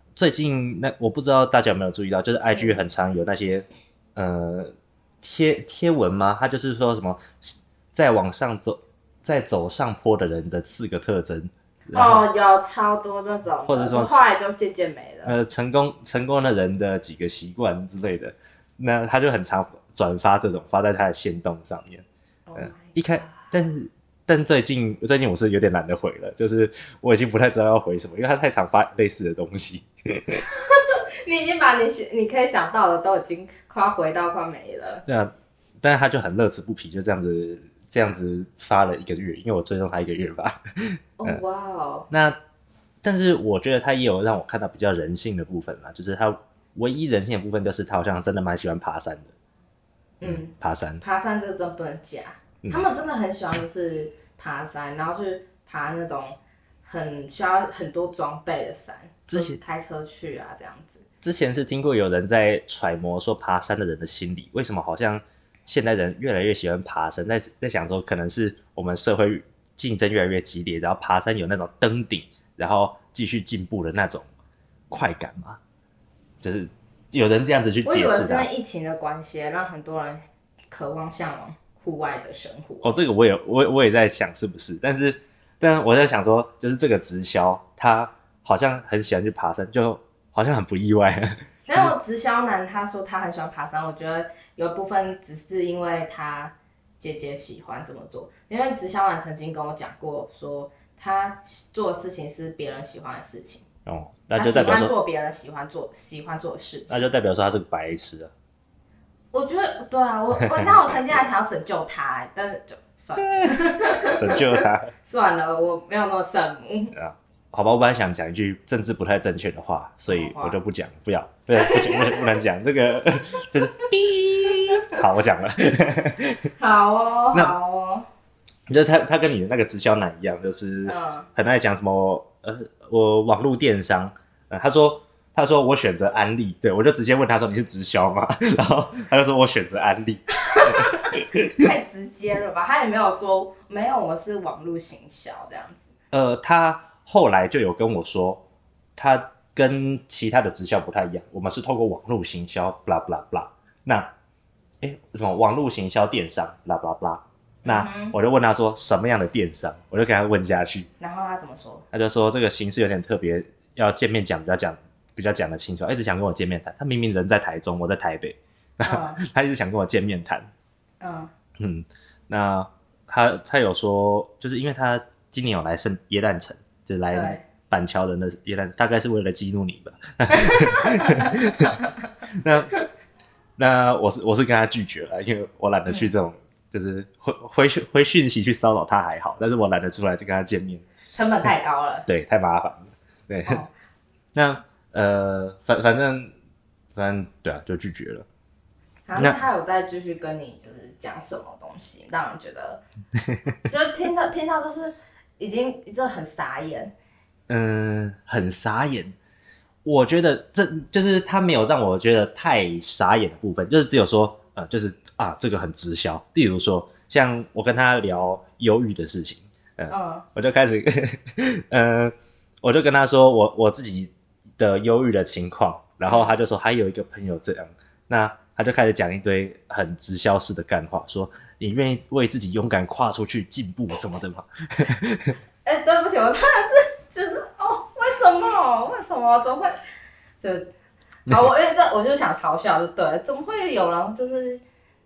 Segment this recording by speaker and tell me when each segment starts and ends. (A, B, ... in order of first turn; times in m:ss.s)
0:00.2-0:12.2 A
0:11.9-0:15.3 B
0:13.7-0:14.2 A
0:15.2-0:22.0 A
0:22.5-0:23.3 B
0:22.6-0:30.4 A
0:30.5-0:35.0 B
0:35.0-0:41.4 A
0:41.2-0:42.1 B
0:42.1-0:42.4 A
0:43.0-0:49.3 A
0:50.2-1:01.0 B
0:50.2-0:51.0 A
0:59.3-0:59.6 A
1:01.2-1:14.3 A
1:14.9-1:15.6 A
1:16.4-1:18.5 A
1:17.8-1:23.0 B
1:22.8-1:31.9 A
1:31.7-1:43.6 B
1:43.8-1:44.9 A
1:44.3-1:47.0 B
1:46.9-1:48.3 A
1:49.3-1:56.9 B
1:50.4-1:51.1 A
1:53.2-1:54.9 A
1:56.9-2:06.5 A
2:00.1-2:00.6 B
2:01.6-2:02.3 B
2:06.6-2:08.1 B
2:08.7-2:21.6 A
2:10.9-2:11.3 B
2:20.4-2:25.9 B
2:26.1-2:28.4 A
2:29.0-2:34.1 A
2:34.8-2:40.9 A
2:37.6-2:38.1 B
2:41.0-2:41.8 B
2:41.9-2:50.5 A
2:48.8-2:49.2 B
2:51.0-2:51.3 B
2:51.6-3:01.8 A
2:57.1-2:57.4 B
3:00.3-3:01.9 B
3:02.3-3:02.7 A
3:03.6-3:10.8 A
3:05.9-3:06.1 B
3:11.1-3:12.0 B
3:12.0-3:13.6 A
3:14.3-3:16.3 A
3:17.0-3:18.2 A
3:19.1-3:22.8 B
3:23.6-3:26.9 B
3:27.5-3:29.1 A
3:29.8-3:55.4 A
3:39.9-3:40.2 B
3:46.1-3:46.3 B
3:55.6-3:59.8 B
4:00.4-4:00.7 B
4:01.3-4:04.6 B